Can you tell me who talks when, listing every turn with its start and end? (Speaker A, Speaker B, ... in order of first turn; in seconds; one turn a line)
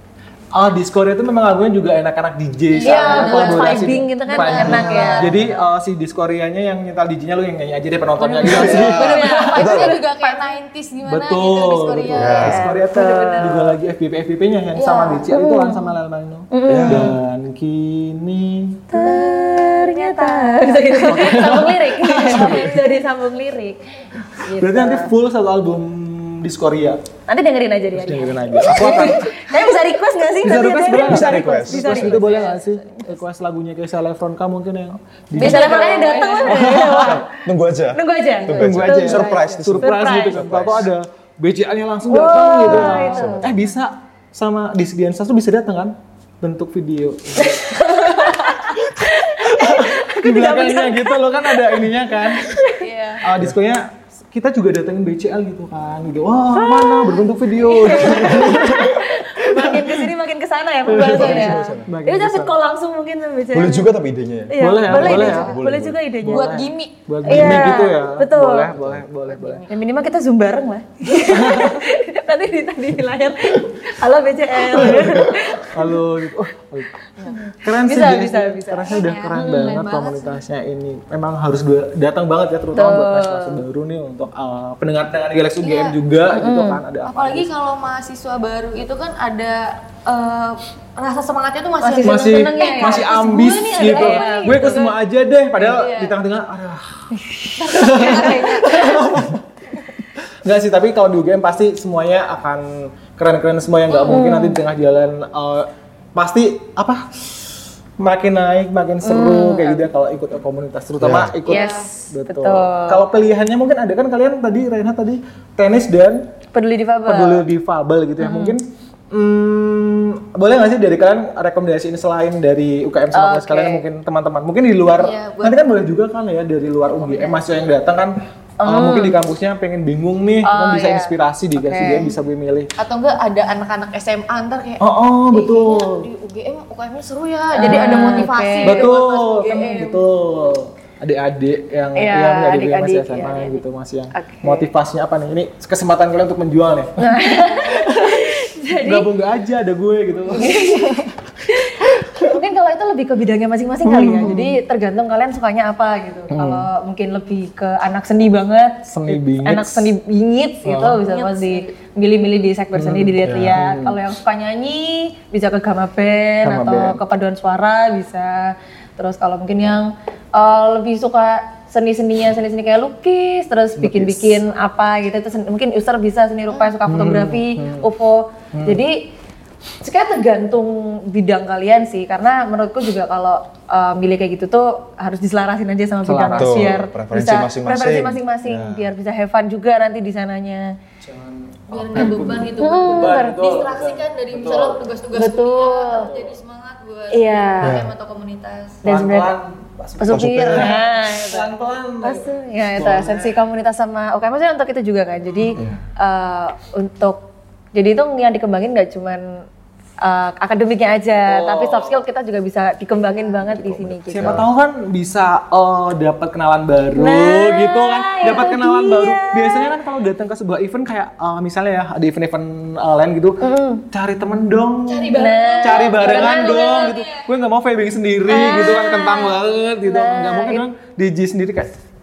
Speaker A: 0.5-9.7
Speaker B: 2.7-5.4
Speaker C: 2.8-5.6
Speaker D: 4.7-5.4
Speaker C: 8.2-10.6
Speaker B: 8.4-12.6
Speaker D: 8.4-10.0
Speaker A: 11.1-18.8
Speaker D: 12.2-12.7
Speaker C: 12.4-13.8
Speaker C: 14.8-15.9
Speaker C: 16.5-17.1
Speaker D: 16.7-17.2
Speaker C: 18.9-25.1
Speaker B: 20.1-20.3
Speaker A: 21.0-22.8
Speaker A: 24.2-27.0
Speaker C: 27.3-33.0
Speaker A: 27.9-29.7
Speaker A: 30.4-37.2
Speaker D: 30.8-32.3
Speaker B: 35.4-36.6
Speaker C: 35.4-37.4
Speaker D: 36.6-40.9
Speaker C: 37.9-40.6
Speaker A: 38.5-48.8
Speaker C: 42.1-43.5
Speaker D: 42.7-43.5
Speaker C: 47.4-52.8
Speaker A: 49.4-52.5
Speaker B: 52.8-53.2
Speaker A: 53.2-59.9
Speaker C: 56.5-63.9
Speaker D: 58.1-58.9
Speaker A: 60.9-62.5
Speaker D: 60.9-61.9
Speaker D: 63.5-66.0
Speaker C: 64.5-66.7
Speaker A: 64.6-65.5
Speaker A: 66.2-69.6
Speaker B: 66.3-67.0
Speaker C: 67.3-68.7
Speaker D: 67.3-67.7
Speaker D: 68.7-69.0
Speaker B: 69.3-69.7
Speaker C: 69.7-75.9
Speaker A: 71.1-71.8
Speaker A: 74.6-76.9
Speaker C: 77.3-79.8
Speaker A: 77.6-87.5
Speaker B: 78.9-80.4
Speaker C: 82.8-83.6
Speaker B: 85.6-86.0
Speaker C: 86.3-86.8
Speaker B: 87.0-95.0
Speaker C: 91.8-94.8
Speaker A: 92.0-96.9
Speaker B: 95.6-96.2
Speaker B: 97.6-99.2
Speaker A: 97.6-99.4
Speaker A: 100.4-107.3
Speaker B: 103.9-104.2
Speaker C: 104.1-104.6
Speaker A: 108.0-116.3
Speaker C: 109.0-109.8
Speaker D: 111.0-111.4
Speaker B: 111.5-111.9
Speaker C: 111.5-113.0
Speaker C: 116.5-117.5
Speaker A: 117.1-132.7
Speaker B: 118.2-118.5
Speaker C: 123.1-123.8
Speaker B: 125.0-125.7
Speaker B: 126.9-127.6
Speaker C: 128.6-129.2
Speaker C: 130.4-132.1
Speaker B: 132.8-140.0
Speaker A: 134.8-136.1
Speaker C: 137.6-139.0
Speaker A: 137.6-138.1
Speaker A: 138.6-151.1
Speaker C: 142.0-143.6
Speaker C: 144.1-144.7
Speaker C: 147.0-149.1
Speaker C: 150.3-179.1
Speaker A: 153.8-154.6
Speaker A: 156.3-156.7
Speaker A: 158.9-159.9
Speaker A: 160.7-161.0
Speaker B: 161.1-161.7
Speaker A: 162.7-164.0
Speaker D: 163.2-163.6
Speaker A: 166.4-167.0
Speaker A: 173.8-174.4
Speaker A: 176.9-177.9
Speaker A: 178.5-178.8
Speaker C: 179.8-190.7
Speaker A: 186.1-186.7
Speaker D: 186.3-188.9
Speaker A: 191.0-194.8
Speaker B: 191.7-198.8
Speaker C: 192.6-193.4
Speaker C: 195.1-196.1
Speaker C: 197.1-197.8
Speaker D: 197.6-197.9
Speaker C: 198.8-199.3
Speaker A: 198.8-203.3
Speaker C: 200.0-201.5
Speaker D: 200.1-200.8
Speaker C: 202.0-209.4
Speaker D: 205.6-205.8
Speaker C: 210.0-214.4
Speaker A: 211.3-212.0
Speaker D: 213.4-214.5
Speaker A: 214.1-231.7
Speaker C: 217.0-219.7
Speaker C: 223.4-223.8
Speaker B: 224.9-227.2
Speaker C: 225.2-226.9
Speaker C: 228.3-230.6
Speaker B: 228.3-228.7